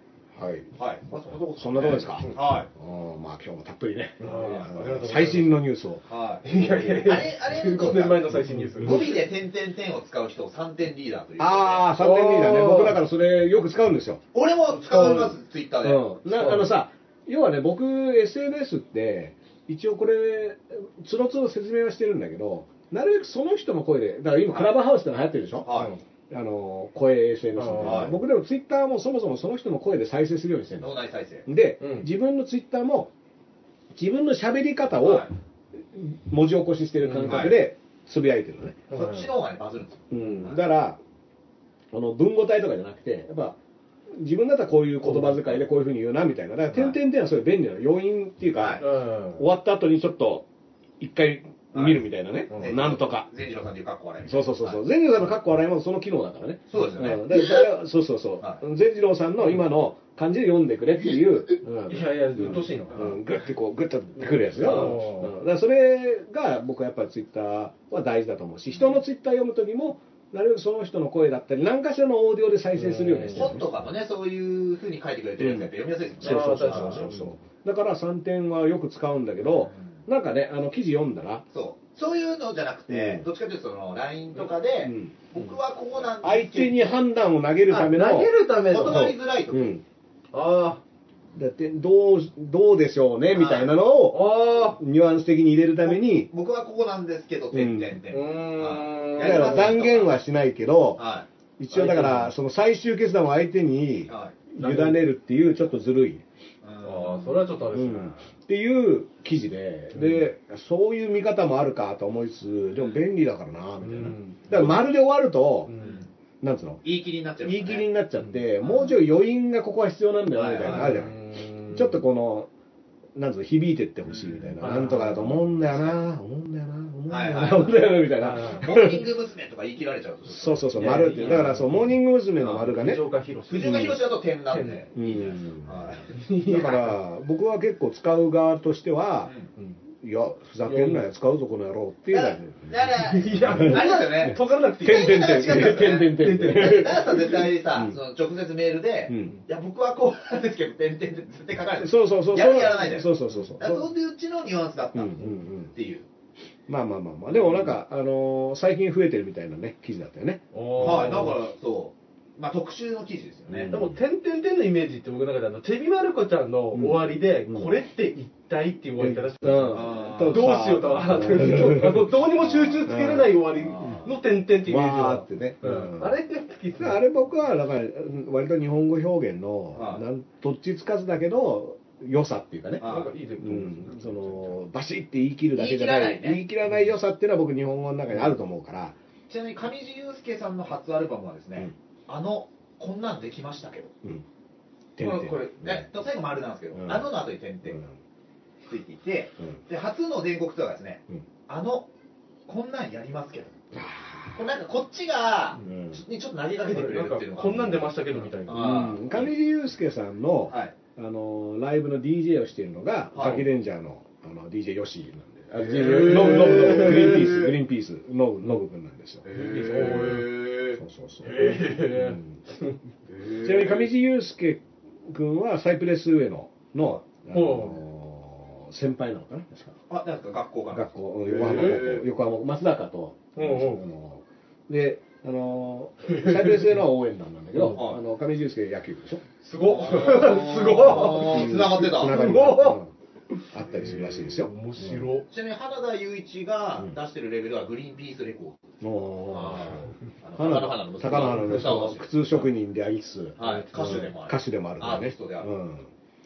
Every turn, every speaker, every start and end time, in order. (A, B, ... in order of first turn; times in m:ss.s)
0:00.3-0:00.7 A
0:00.8-0:02.7 B
0:01.6-0:06.0 A
0:04.2-0:05.6 C
0:04.3-0:04.6 B
0:06.1-0:11.9 B
0:06.4-0:09.2 C
0:08.5-0:09.0 A
0:11.4-0:14.2 A
0:12.0-0:13.0 C
0:14.3-0:16.2 B
0:14.7-0:15.3 C
0:15.8-0:25.7 A
0:16.3-0:16.8 C
0:24.5-0:24.8 B
0:25.6-0:25.9 B
0:25.7-0:26.0 C
0:26.3-0:30.9 A
0:27.6-0:28.1 C
0:27.8-0:28.1 B
0:30.8-0:31.5 B
0:31.5-0:33.1 A
0:31.8-0:32.1 C
0:33.9-0:35.3 A
0:35.0-0:35.3 B
0:35.8-0:38.8 A
0:37.0-0:37.4 C
0:37.2-0:37.6 B
0:38.9-0:39.3 C
0:38.9-0:40.6 B
0:40.1-0:41.0 A
0:41.9-0:43.6 A
0:44.1-0:50.5 A
0:45.0-0:45.4 C
0:46.7-0:47.0 B
0:48.5-0:48.8 B
0:48.8-0:49.4 C
0:51.0-0:53.3 A
0:51.7-0:54.8 B
0:52.5-0:52.8 C
0:54.2-1:13.7 A
0:56.7-0:57.6 B
1:01.6-1:03.0 C
1:03.0-1:03.2 B
1:04.6-1:05.3 C
1:12.8-1:13.5 C
1:13.3-1:17.1 B
1:15.4-1:21.4 A
1:16.2-1:17.3 C
1:19.4-1:20.0 B
1:21.5-1:26.8 B
1:22.9-1:23.2 A
1:24.8-1:25.2 A
1:26.2-1:29.8 A
1:27.7-1:29.1 C
1:28.6-1:29.8 B
1:30.3-1:30.8 C
1:31.4-1:36.3 A
1:33.3-1:33.7 B
1:34.1-1:34.8 C
1:35.8-1:40.2 B
1:37.5-1:38.0 A
1:38.1-1:39.7 C
1:39.2-1:41.0 A
1:41.0-1:41.3 B
1:41.6-1:46.2 A
1:41.7-1:42.3 C
1:44.1-1:44.4 B
1:44.6-1:45.0 C
1:46.6-1:47.4 B
1:46.8-1:48.3 C
1:47.7-1:55.7 A
1:49.9-1:50.2 C
1:53.8-1:54.4 C
1:54.5-1:54.8 B
1:55.7-1:56.0 C
1:55.8-1:56.1 B
1:56.4-1:56.8 A
1:56.8-1:57.9 B
1:57.4-2:02.5 A
1:58.6-1:59.0 B
2:00.3-2:01.0 B
2:00.6-2:02.0 C
2:03.2-2:09.0 A
2:04.1-2:04.8 B
2:04.6-2:05.5 C
2:07.1-2:11.5 B
2:08.2-2:08.6 C
2:10.3-2:13.0 A
2:10.8-2:11.8 C
2:12.4-2:14.0 C
2:13.5-2:16.2 B
2:13.6-2:14.0 A
2:14.5-2:14.8 C
2:15.0-2:15.8 A
2:16.1-2:17.0 C
2:16.4-2:19.3 A
2:19.2-2:19.5 B
2:20.0-2:22.8 A
2:20.6-2:21.1 C
2:22.1-2:36.1 B
2:23.0-2:27.5 C
2:23.4-2:28.0 A
2:29.1-2:29.4 A
2:31.8-2:33.9 A
2:34.9-2:35.7 A
2:36.7-2:41.3 A
2:37.3-2:37.7 B
2:40.5-2:41.4 C
2:40.8-2:43.7 B
2:43.5-2:44.0 A
2:43.7-2:57.0 C
2:46.7-2:47.8 A
2:49.0-2:53.4 A
2:49.7-2:50.6 B
2:52.4-2:52.8 B
2:53.6-2:54.2 B
2:54.6-2:56.2 A
2:56.8-3:02.9 A
2:59.8-3:00.0 B
3:02.8-3:03.1 B
3:02.8-3:04.6 C
3:03.4-3:09.0 A
3:05.5-3:06.4 B
3:09.3-3:13.9 B
3:15.0-3:15.9 A
3:15.0-3:15.5 C
3:15.5-3:17.8 B
3:16.7-3:17.1 A
3:17.7-3:17.9 A
3:18.7-3:21.9 B
3:22.5-3:23.6 B
3:23.7-3:24.4 A
3:24.3-3:29.3 B
3:25.6-3:26.0 A
3:26.7-3:28.9 C
3:28.5-3:40.1 A
3:30.5-3:30.8 B
3:33.1-3:33.4 B
3:35.6-3:37.5 B
3:35.7-3:37.2 C
3:39.2-3:40.8 B
3:39.3-3:40.4 C
3:40.8-3:42.4 A
3:41.2-3:42.8 C
3:43.1-3:43.9 B
3:43.4-3:49.8 A
3:47.3-3:47.8 C
3:49.9-3:52.0 B
3:50.7-3:59.2 A
3:51.3-3:51.9 C
3:53.4-3:53.8 C
3:56.1-3:56.7 C
3:57.5-3:57.9 C
3:57.6-3:58.0 B
3:59.4-4:02.8 C
3:59.6-4:02.6 B
4:00.8-4:02.9 A
4:03.5-4:05.1 A
4:03.9-4:05.3 C
4:05.3-4:08.6 B
4:08.8-4:15.9 A
4:09.3-4:12.5 B
4:09.6-4:09.9 C
4:11.2-4:11.5 C
4:13.4-4:15.5 B
4:13.4-4:14.1 C